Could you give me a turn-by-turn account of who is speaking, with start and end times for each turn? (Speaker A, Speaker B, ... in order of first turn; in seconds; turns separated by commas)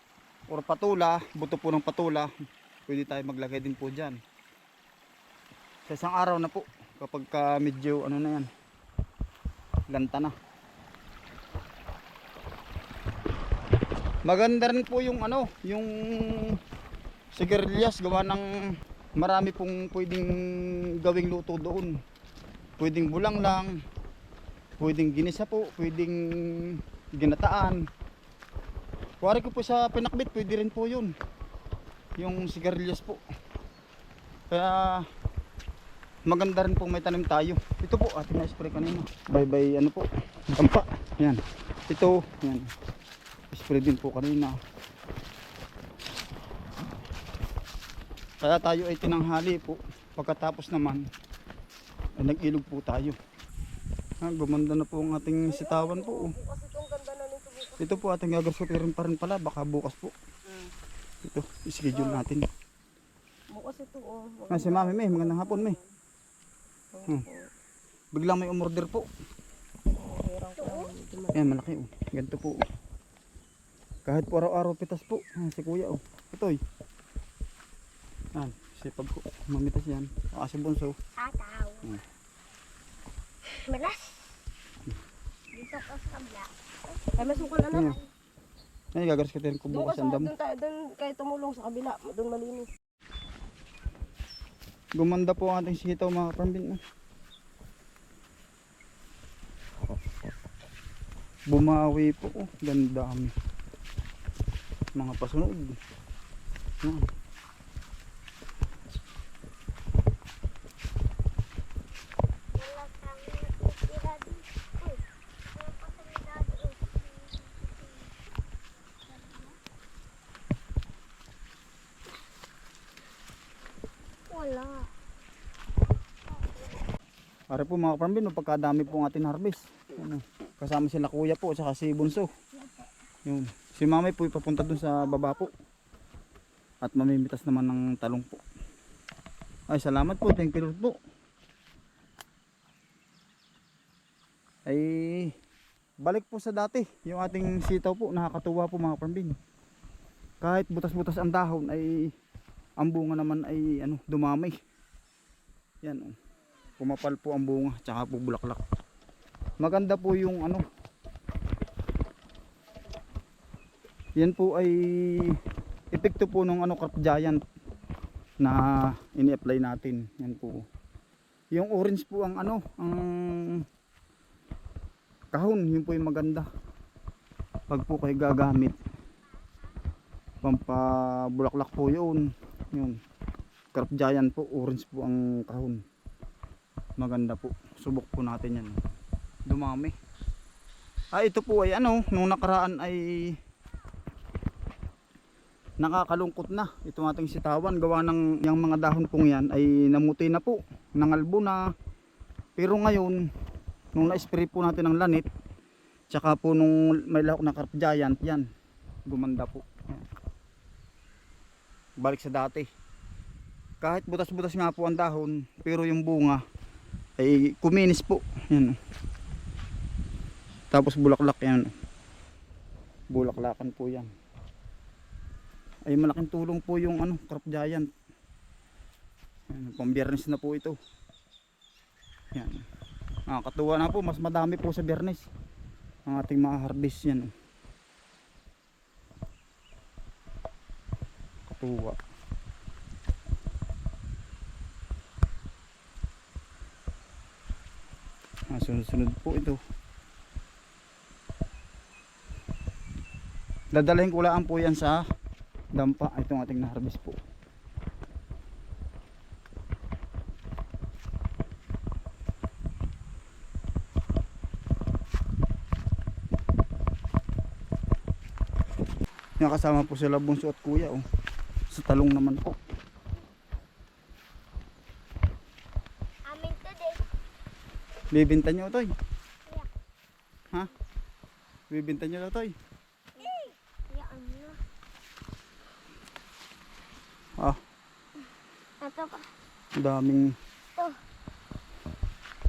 Speaker A: 0.5-2.3, Speaker A: 2.9-4.2, Speaker A: 5.9-8.5, Speaker A: 9.9-10.3, Speaker A: 14.3-16.6, Speaker A: 17.3-22.0, Speaker A: 22.8-23.8, Speaker A: 24.8-27.8, Speaker A: 29.2-31.1, Speaker A: 32.2-33.2, Speaker A: 34.5-35.1, Speaker A: 36.3-42.7, Speaker A: 43.5-44.6, Speaker A: 48.4-51.0, Speaker A: 52.2-53.2, Speaker A: 54.2-56.3, Speaker B: 55.4-58.0, Speaker A: 57.8-60.1, Speaker A: 61.2-62.5, Speaker B: 61.9-62.2, Speaker B: 63.5-65.8, Speaker A: 64.5-65.8, Speaker B: 66.9-67.5, Speaker A: 68.1-69.1, Speaker B: 70.0-71.5, Speaker C: 70.6-70.9, Speaker A: 71.3-72.6, Speaker A: 74.0-76.6, Speaker A: 78.3-81.0, Speaker C: 81.2-81.9, Speaker C: 83.5-84.3, Speaker C: 85.5-86.5, Speaker B: 87.1-88.0, Speaker C: 87.1-88.1, Speaker A: 87.7-88.0, Speaker A: 88.9-90.3, Speaker B: 89.7-92.7, Speaker A: 95.0-96.8, Speaker A: 101.5-103.3, Speaker A: 105.0-105.7, Speaker C: 112.5-118.1, Speaker C: 119.1-119.6, Speaker C: 124.3-124.9, Speaker A: 127.5-132.3, Speaker A: 133.2-135.5, Speaker A: 136.8-138.4, Speaker A: 139.7-141.0, Speaker A: 144.7-145.3, Speaker A: 146.0-149.3, Speaker A: 150.4-152.1, Speaker A: 152.8-154.6, Speaker A: 155.8-156.2, Speaker A: 156.8-158.6, Speaker A: 159.6-160.7, Speaker A: 164.2-165.4, Speaker A: 165.9-167.4, Speaker A: 168.4-170.7, Speaker A: 171.5-173.7, Speaker A: 175.3-176.5, Speaker A: 177.7-178.8, Speaker A: 180.4-183.0, Speaker A: 183.7-185.8, Speaker A: 187.0-188.8, Speaker A: 189.5-189.9, Speaker A: 191.1-193.4, Speaker A: 195.8-201.6, Speaker A: 202.6-203.2, Speaker A: 203.9-205.3, Speaker A: 206.1-208.5, Speaker A: 209.1-210.0, Speaker A: 212.0-212.7, Speaker A: 213.8-216.4, Speaker A: 217.2-218.8, Speaker A: 220.7-221.7, Speaker A: 223.1-224.1, Speaker A: 225.9-227.9, Speaker A: 229.5-230.8, Speaker A: 232.3-232.6, Speaker A: 233.3-235.3, Speaker A: 236.1-237.3, Speaker A: 241.5-242.0, Speaker A: 248.5-249.6, Speaker A: 253.7-255.0, Speaker A: 255.8-257.2, Speaker A: 269.4-271.0, Speaker A: 271.7-272.6, Speaker C: 276.3-277.1, Speaker A: 278.1-278.9, Speaker A: 281.7-282.5, Speaker C: 283.2-284.6, Speaker C: 288.8-289.3, Speaker A: 289.8-290.3